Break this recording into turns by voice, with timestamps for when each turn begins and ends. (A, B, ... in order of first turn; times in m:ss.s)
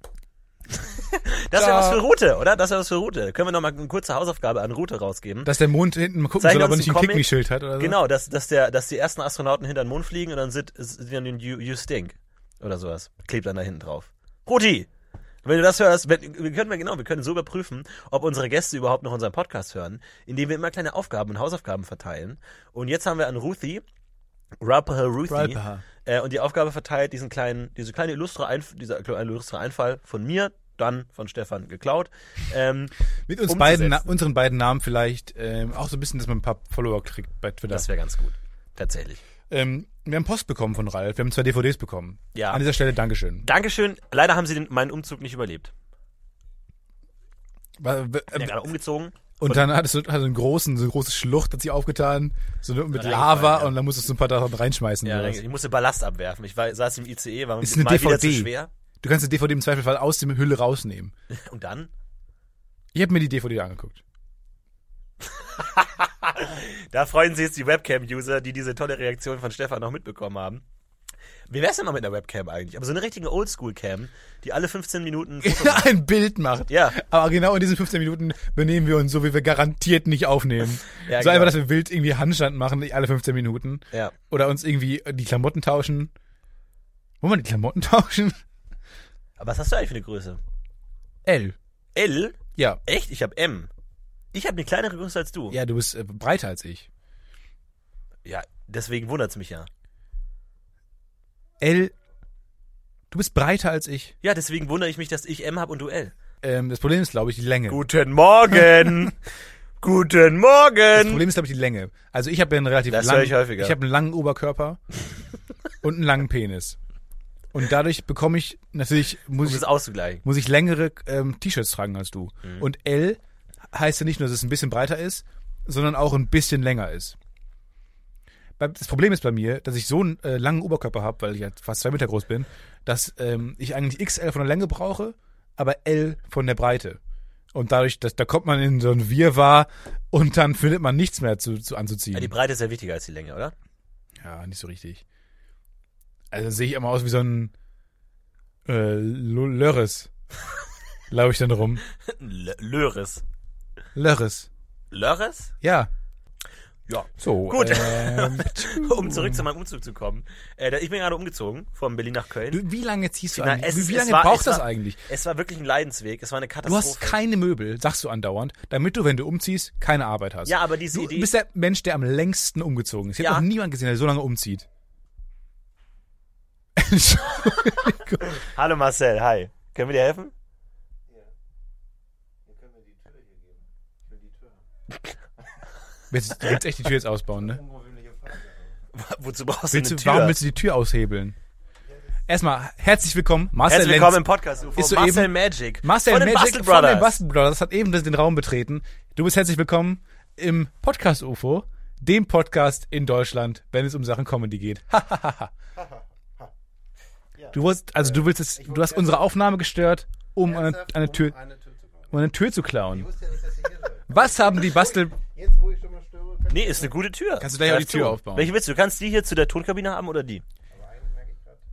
0:01.0-0:05.5 A
0:01.5-0:02.0 B
0:05.4-0:08.0 B
0:06.4-0:07.3 A
0:07.8-0:14.9 A
0:15.4-0:23.8 A
0:24.6-0:32.9 A
0:25.3-0:25.8 B
0:33.3-0:37.9 B
0:33.4-0:34.1 A
0:37.7-0:39.2 A
0:39.5-0:43.5 B
0:42.3-0:42.6 A
0:43.4-0:45.7 A
0:47.8-0:48.6 B
0:48.4-0:49.7 A
0:49.4-0:55.4 B
0:52.9-0:53.7 A
0:55.0-0:58.7 A
0:57.6-1:01.1 B
1:01.3-1:01.9 A
1:02.9-1:04.0 B
1:05.4-1:10.6 A
1:11.5-1:15.9 A
1:15.4-1:26.1 B
1:16.7-1:17.0 A
1:21.0-1:21.6 A
1:27.2-1:28.4 B
1:29.4-1:30.4 A
1:31.2-1:31.6 B
1:31.9-1:33.7 A
1:34.3-1:35.6 A
1:35.5-1:36.9 B
1:38.2-1:39.7 A
1:41.6-1:41.9 B
1:43.1-1:44.1 B
1:44.2-1:46.1 A
1:46.4-1:47.8 B
1:47.7-1:49.2 A
1:49.8-1:51.2 A
1:50.9-1:54.8 B
1:52.9-1:53.7 A
1:55.8-1:56.8 B
1:57.5-1:59.7 B
1:59.4-2:00.2 A
2:00.2-2:03.2 B
2:03.7-2:07.1 B
2:08.6-2:17.0 B
2:17.5-2:22.3 B
2:22.1-2:23.5 A
2:24.2-2:25.0 B
2:26.3-2:27.5 B
2:28.6-2:30.1 B
2:31.1-2:31.8 B
2:32.1-2:33.2 A
2:33.9-2:34.5 B
2:34.9-2:35.5 A
2:35.6-2:35.9 B
2:36.9-2:42.6 A
2:37.2-2:39.4 B
2:42.5-2:45.0 B
2:43.3-2:47.2 A
2:46.6-2:54.6 B
2:50.4-2:51.3 A
2:53.2-2:53.4 A
2:56.8-2:58.4 B
2:58.2-3:00.3 A
3:02.4-3:04.6 C
3:06.1-3:07.6 B
3:07.4-3:08.8 C
3:08.9-3:10.4 A
3:09.7-3:11.4 B
3:12.3-3:25.5 B
3:13.6-3:17.1 A
3:25.8-3:26.5 C
3:27.4-3:29.2 C
3:27.5-3:31.4 B
3:30.4-3:32.2 C
3:32.1-3:33.1 B
3:32.9-3:37.0 C
3:34.1-3:35.1 B
3:36.5-3:40.4 A
3:37.4-3:38.5 B
3:40.7-3:41.6 C